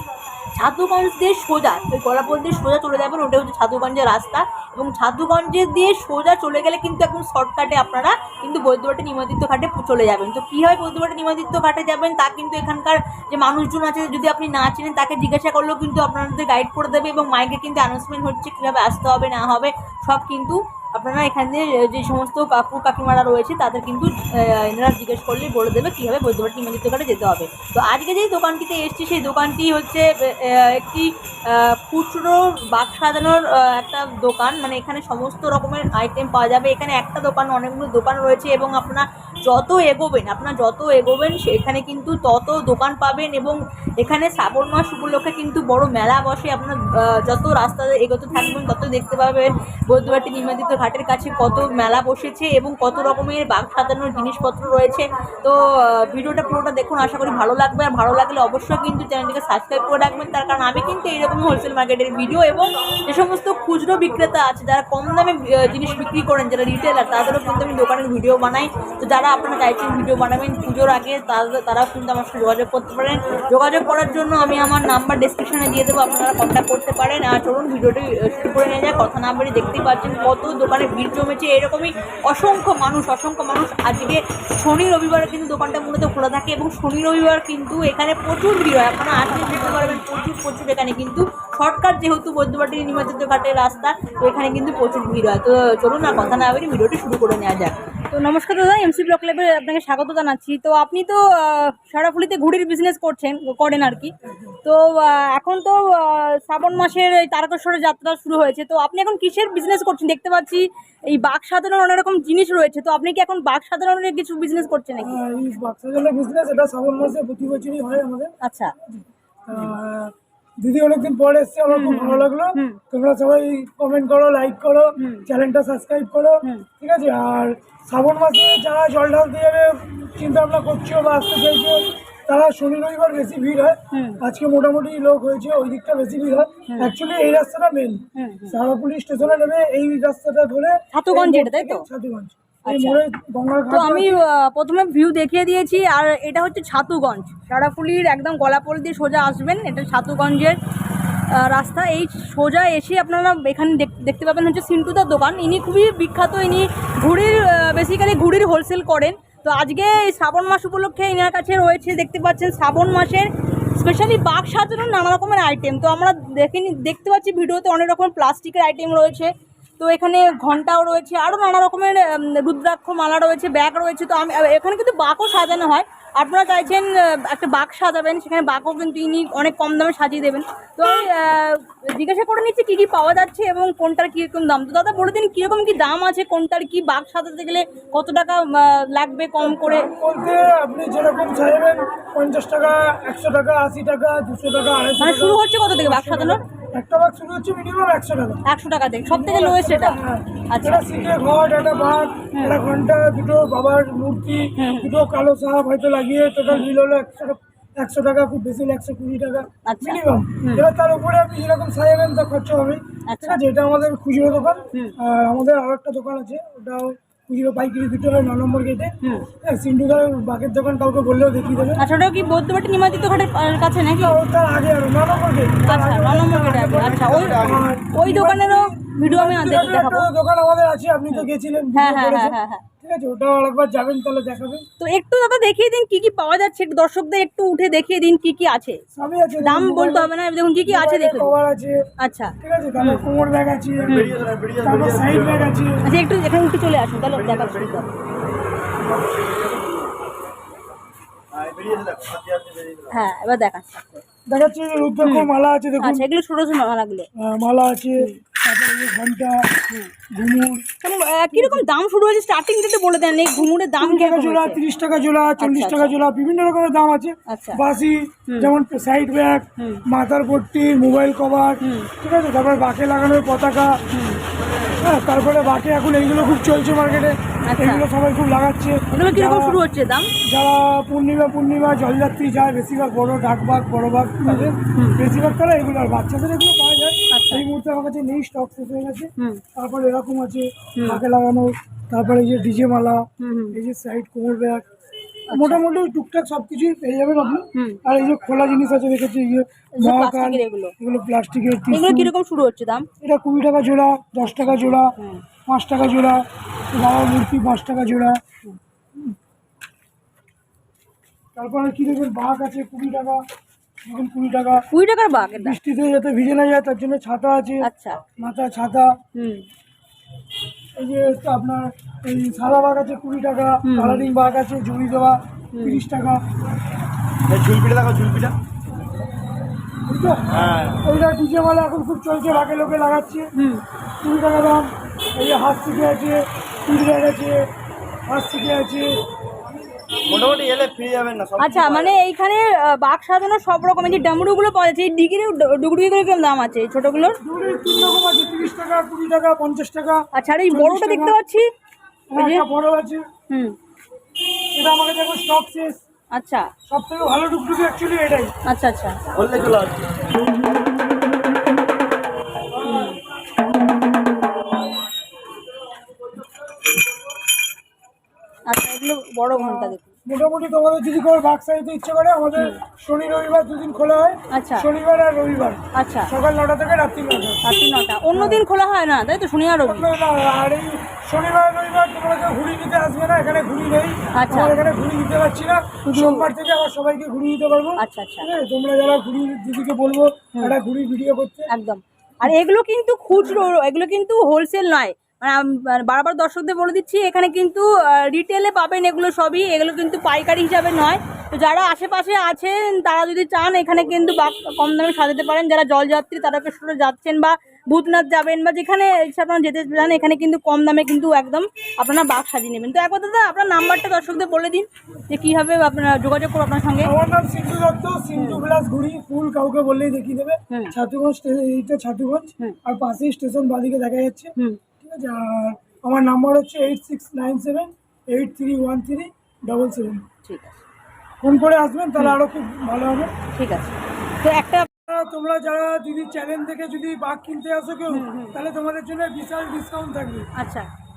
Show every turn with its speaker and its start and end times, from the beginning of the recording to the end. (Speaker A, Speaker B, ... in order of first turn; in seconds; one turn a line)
Speaker A: 0.5-97.8
Speaker B: 98.1-104.1
Speaker B: 104.6-115.2
Speaker C: 115.0-118.3
Speaker B: 118.4-118.7
Speaker C: 118.9-144.2
Speaker B: 121.7-122.8
Speaker B: 125.0-125.3
Speaker B: 133.9-134.2
Speaker B: 138.2-138.6
Speaker B: 140.9-141.8
Speaker B: 142.7-143.0
Speaker B: 143.7-150.6
Speaker B: 151.3-189.9
Speaker C: 189.4-198.4
Speaker B: 195.0-196.4
Speaker B: 198.4-200.9
Speaker C: 199.0-221.8
Speaker B: 202.3-202.6
Speaker B: 204.6-204.9
Speaker B: 209.7-210.6
Speaker B: 213.1-213.4
Speaker B: 221.8-224.2
Speaker C: 223.9-234.6
Speaker B: 225.7-230.1
Speaker D: 226.8-227.6
Speaker B: 231.1-232.6
Speaker B: 234.8-238.8
Speaker C: 238.9-241.8
Speaker B: 239.4-241.4
Speaker B: 242.0-243.1
Speaker C: 242.4-244.0
Speaker B: 243.9-244.2
Speaker D: 243.9-245.4
Speaker C: 244.5-245.8
Speaker B: 245.8-247.9
Speaker D: 247.3-247.8
Speaker D: 249.0-249.7
Speaker D: 251.3-252.9
Speaker B: 252.9-254.0
Speaker C: 254.3-256.1
Speaker B: 255.0-257.1
Speaker C: 257.1-259.5
Speaker C: 260.1-260.6
Speaker B: 260.8-264.6
Speaker C: 261.3-261.6
Speaker C: 263.4-273.8
Speaker B: 265.4-265.9
Speaker B: 267.3-267.6
Speaker B: 271.6-271.9
Speaker B: 273.9-274.2
Speaker C: 274.7-279.6
Speaker B: 277.5-277.9
Speaker B: 278.9-280.1
Speaker C: 280.2-294.6
Speaker B: 284.2-285.0
Speaker B: 287.1-287.4
Speaker B: 290.8-291.0
Speaker B: 293.2-293.6
Speaker B: 295.3-295.6
Speaker C: 295.3-302.1
Speaker B: 297.5-297.8
Speaker B: 299.8-300.7
Speaker B: 301.7-302.9
Speaker C: 303.0-308.2
Speaker B: 304.2-305.2
Speaker C: 311.3-313.2
Speaker C: 313.9-314.6
Speaker B: 314.7-315.6
Speaker C: 315.3-319.0
Speaker B: 317.6-318.0
Speaker B: 319.1-319.4
Speaker C: 320.8-326.2
Speaker B: 323.6-324.1
Speaker B: 325.5-325.8
Speaker D: 327.3-328.4
Speaker C: 329.9-333.3
Speaker D: 330.4-330.8
Speaker B: 333.4-333.6
Speaker C: 334.0-337.5
Speaker C: 338.1-338.9
Speaker D: 340.0-341.9
Speaker B: 341.4-347.2
Speaker C: 347.2-351.2
Speaker B: 350.1-351.5
Speaker C: 352.1-353.1
Speaker B: 352.1-352.4
Speaker B: 353.3-353.6
Speaker C: 354.5-355.8
Speaker B: 356.1-356.5
Speaker C: 356.7-358.3
Speaker B: 358.5-359.0
Speaker D: 359.1-360.1
Speaker B: 362.6-363.0
Speaker B: 368.5-369.8
Speaker C: 369.3-377.4
Speaker B: 374.3-374.7
Speaker B: 375.7-376.1
Speaker B: 377.4-379.9
Speaker C: 378.1-378.4
Speaker C: 379.6-391.5
Speaker B: 384.1-384.7
Speaker B: 385.9-386.3
Speaker B: 387.8-388.3
Speaker B: 391.5-416.9
Speaker C: 416.8-430.1
Speaker B: 418.1-418.4
Speaker B: 420.5-420.8
Speaker B: 430.2-430.6
Speaker C: 431.2-433.1
Speaker B: 433.3-434.7
Speaker C: 434.9-440.3
Speaker B: 437.9-438.3
Speaker B: 440.4-440.7